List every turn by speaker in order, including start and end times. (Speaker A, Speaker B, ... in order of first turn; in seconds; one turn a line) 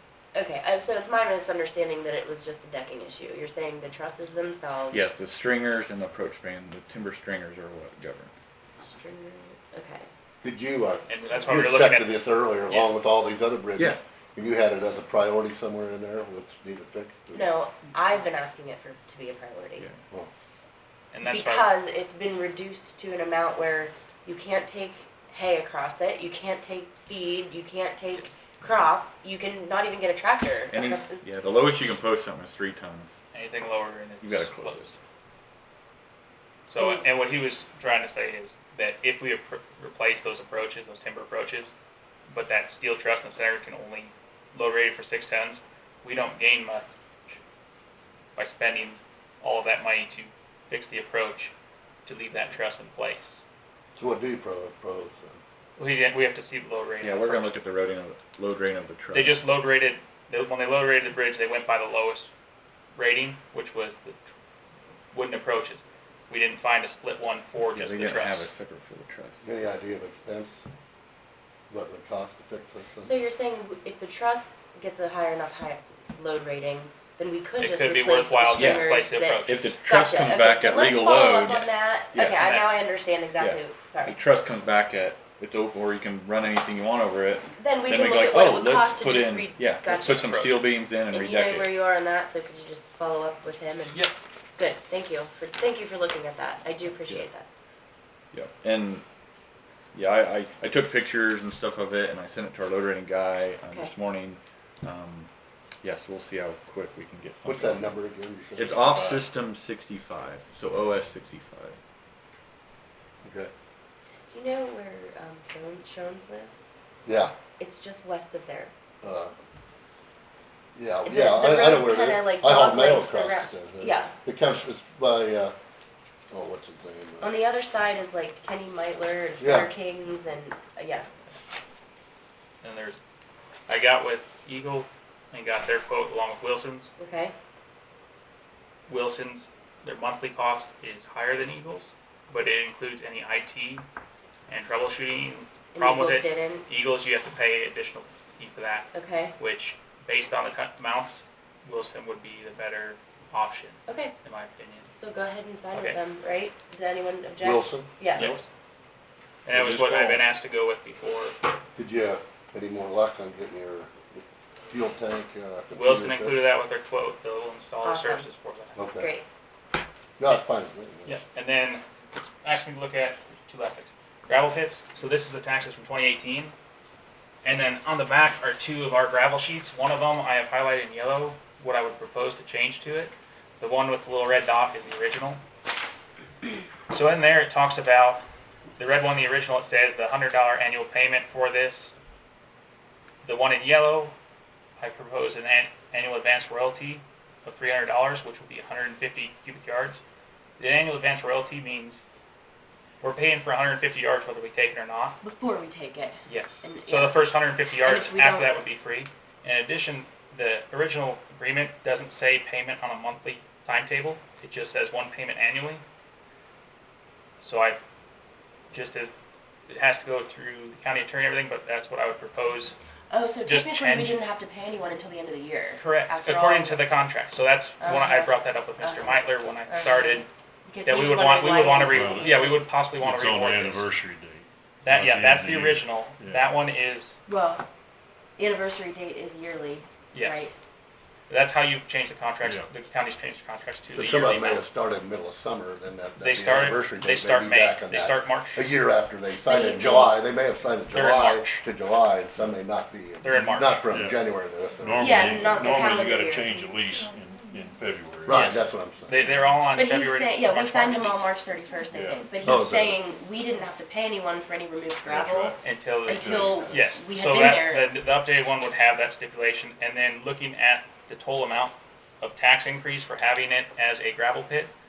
Speaker A: 0.3-5.1
Speaker B: 4.9-8.3
Speaker A: 8.7-10.1
Speaker C: 10.4-17.5
Speaker D: 11.1-12.9
Speaker A: 17.3-19.9
Speaker D: 21.1-21.7
Speaker A: 21.2-31.2
Speaker B: 30.7-33.2
Speaker D: 33.3-34.9
Speaker B: 34.2-34.9
Speaker D: 36.7-41.7
Speaker A: 36.8-37.0
Speaker D: 42.3-47.4
Speaker D: 48.4-51.5
Speaker D: 52.0-53.4
Speaker C: 53.9-55.4
Speaker D: 55.8-57.6
Speaker B: 57.0-59.4
Speaker D: 59.1-62.3
Speaker D: 63.0-64.2
Speaker D: 65.1-68.5
Speaker B: 67.7-69.5
Speaker C: 69.4-70.7
Speaker C: 71.7-73.1
Speaker A: 73.0-84.2
Speaker D: 77.6-79.7
Speaker B: 78.5-78.9
Speaker B: 79.5-82.8
Speaker B: 83.4-91.7
Speaker A: 87.6-90.4
Speaker D: 90.0-90.7
Speaker A: 91.1-94.0
Speaker A: 94.5-97.5
Speaker B: 98.3-99.0
Speaker B: 99.9-105.3
Speaker B: 105.8-107.9
Speaker C: 107.4-109.0
Speaker B: 108.5-111.8
Speaker E: 108.6-109.3
Speaker C: 113.2-113.5
Speaker A: 114.3-116.5
Speaker C: 117.0-117.3
Speaker A: 117.6-118.7
Speaker C: 119.0-119.3
Speaker C: 120.7-125.5
Speaker A: 121.0-124.1
Speaker C: 126.3-127.3
Speaker A: 127.2-131.1
Speaker C: 129.4-129.7
Speaker D: 132.6-133.0
Speaker D: 133.7-136.9
Speaker A: 137.0-137.3
Speaker D: 138.9-143.8
Speaker D: 144.5-154.9
Speaker A: 145.7-146.6
Speaker A: 148.9-149.3
Speaker A: 153.9-154.1
Speaker A: 154.9-158.3
Speaker D: 155.7-156.0
Speaker C: 157.4-157.9
Speaker D: 158.2-158.5
Speaker D: 159.4-161.4
Speaker C: 159.5-160.2
Speaker C: 161.8-166.4
Speaker D: 165.7-168.8
Speaker A: 167.8-168.3
Speaker C: 168.8-169.1
Speaker A: 169.0-169.2
Speaker C: 170.2-171.2
Speaker D: 171.1-171.8
Speaker D: 172.4-176.5
Speaker D: 177.4-185.4
Speaker D: 186.9-188.2
Speaker D: 188.8-191.9
Speaker D: 193.2-194.1
Speaker D: 194.8-200.0
Speaker D: 200.6-202.0
Speaker D: 203.0-205.2
Speaker A: 205.2-207.2
Speaker D: 206.2-215.8
Speaker A: 207.8-208.6
Speaker D: 217.4-217.8
Speaker D: 218.7-219.1
Speaker D: 219.7-222.7
Speaker A: 223.1-226.8
Speaker D: 223.4-224.2
Speaker D: 225.8-230.3
Speaker A: 227.8-232.6
Speaker D: 230.8-233.9
Speaker E: 231.9-236.5
Speaker D: 234.8-237.2
Speaker A: 237.3-237.7
Speaker A: 238.4-240.5
Speaker D: 240.1-240.4
Speaker D: 241.3-244.6
Speaker E: 242.4-242.7
Speaker C: 243.9-255.6
Speaker D: 246.2-248.7
Speaker A: 249.4-250.2
Speaker D: 250.9-251.6
Speaker D: 253.2-253.9
Speaker E: 253.9-254.2
Speaker E: 254.8-258.6
Speaker A: 255.0-256.7
Speaker C: 258.3-259.4
Speaker B: 258.3-258.6
Speaker D: 259.1-261.3
Speaker A: 259.7-267.9
Speaker E: 261.9-262.9
Speaker C: 262.4-262.9
Speaker E: 265.0-266.9
Speaker D: 265.6-274.7